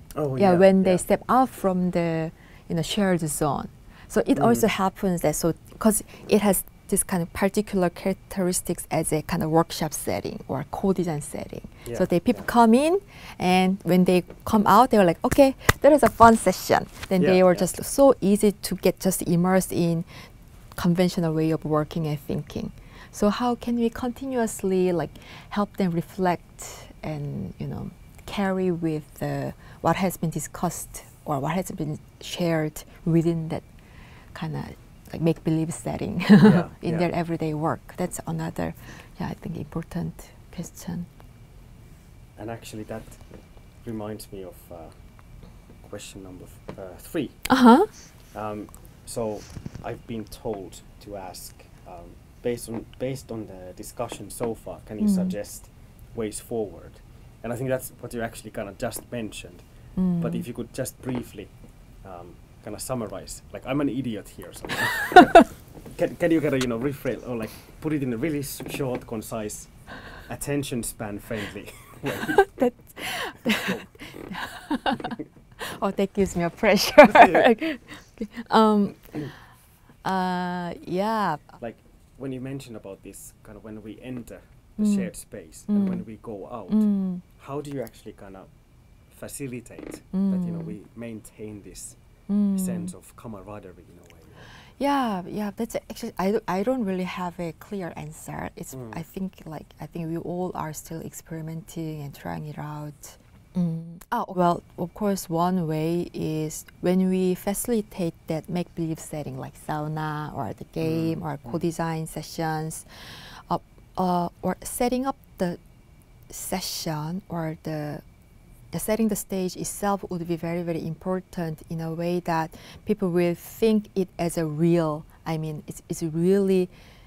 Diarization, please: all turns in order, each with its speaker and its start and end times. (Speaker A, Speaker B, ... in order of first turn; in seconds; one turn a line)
Speaker A: 0.1-1.0
Speaker B: 0.4-33.7
Speaker A: 4.4-4.7
Speaker A: 11.9-12.4
Speaker A: 17.2-17.7
Speaker B: 34.3-41.1
Speaker A: 36.4-37.1
Speaker A: 42.4-43.2
Speaker A: 43.8-45.1
Speaker A: 45.8-47.5
Speaker B: 47.5-47.9
Speaker A: 48.3-59.6
Speaker B: 55.0-55.4
Speaker B: 60.0-60.5
Speaker A: 60.2-72.7
Speaker B: 72.4-79.3
Speaker A: 73.4-73.9
Speaker A: 77.1-77.5
Speaker B: 80.0-81.6
Speaker A: 81.6-88.5
Speaker B: 84.8-85.1
Speaker B: 85.7-86.0
Speaker B: 86.7-87.2
Speaker A: 89.1-92.0
Speaker B: 90.1-90.8
Speaker B: 92.3-92.9
Speaker A: 92.5-94.5
Speaker B: 94.8-115.6
Speaker A: 98.7-99.0
Speaker A: 110.8-111.6
Speaker B: 116.3-118.0
Speaker B: 118.7-126.7